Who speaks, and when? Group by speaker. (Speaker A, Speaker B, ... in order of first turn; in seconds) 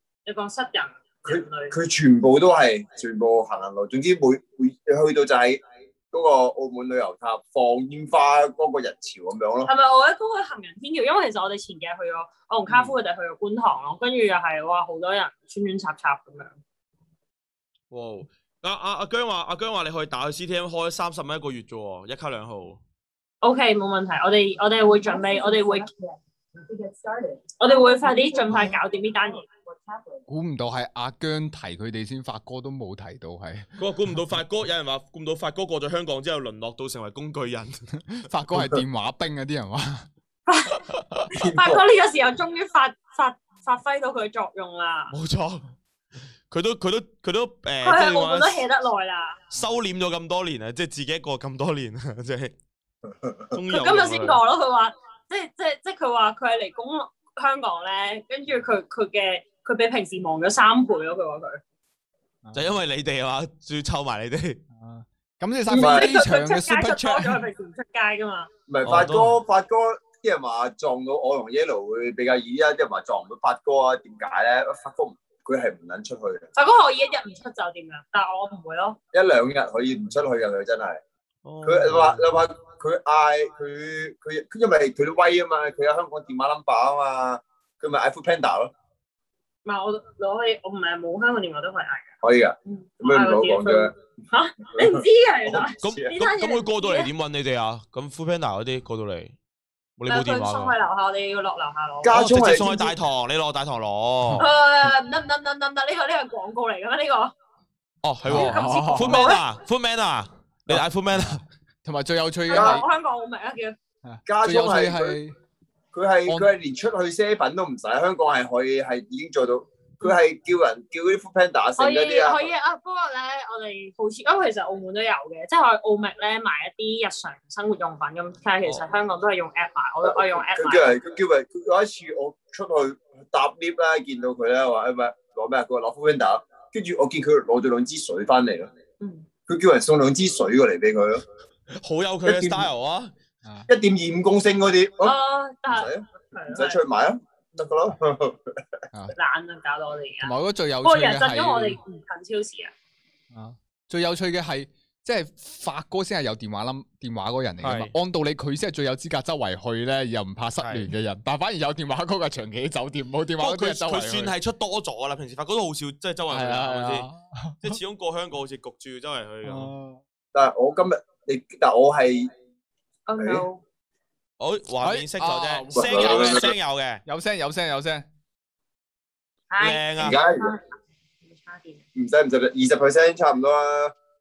Speaker A: 0.2-1.8, 9.6-16.6, 23.4-25.9, 26.7-29.6, 40.5-40.8, 41.4-45.1, 47.8-49.4, 53.7-61.6, 65.7-68.5, 76.5-79.0, 89.6-92.1, 92.7-97.1, 100.1-102.1, 104.4-107.3, 108.3-109.4, 112.5-113.7, 121.8-130.9, 139.0-139.2, 145.0-146.8, 149.2-152.7, 173.1-173.6, 179.5-180.6, 181.2-181.8
Speaker B: 1.2-5.6, 6.1-9.7, 41.3-41.8, 65.7-66.1, 68.7-76.5, 79.1-81.0, 81.6-88.7, 92.2-93.9, 94.7-96.1, 102.0-102.9, 112.5-112.8, 114.2-115.2, 115.9-122.5, 130.0-138.7, 139.5-141.2, 142.2-142.7, 143.7-145.1, 145.7-148.5, 170.3-172.3, 173.2-173.4, 175.7-176.5, 180.0-180.5, 181.9-183.9
Speaker C: 12.7-12.9, 17.9-22.8, 33.8-37.9, 45.1-45.7, 46.5-48.6, 49.5-52.5, 53.5-54.4, 62.5-64.6, 68.8-69.3, 81.4-82.2, 95.8-99.3, 100.0-100.7, 102.1-104.4, 108.0-111.4, 141.8-143.1, 157.6-157.9, 160.6-160.9, 163.4-167.1, 167.6-169.7, 174.4-177.0, 179.6-180.2
Speaker D: 30.3-33.7, 38.1-40.1, 40.9-41.2, 62.4-62.8, 64.8-67.4, 108.2-109.3, 110.7-112.8, 114.0-115.3, 150.2-151.8, 153.3-164.3, 166.3-167.8, 169.4-170.0, 174.8-176.5, 177.1-178.1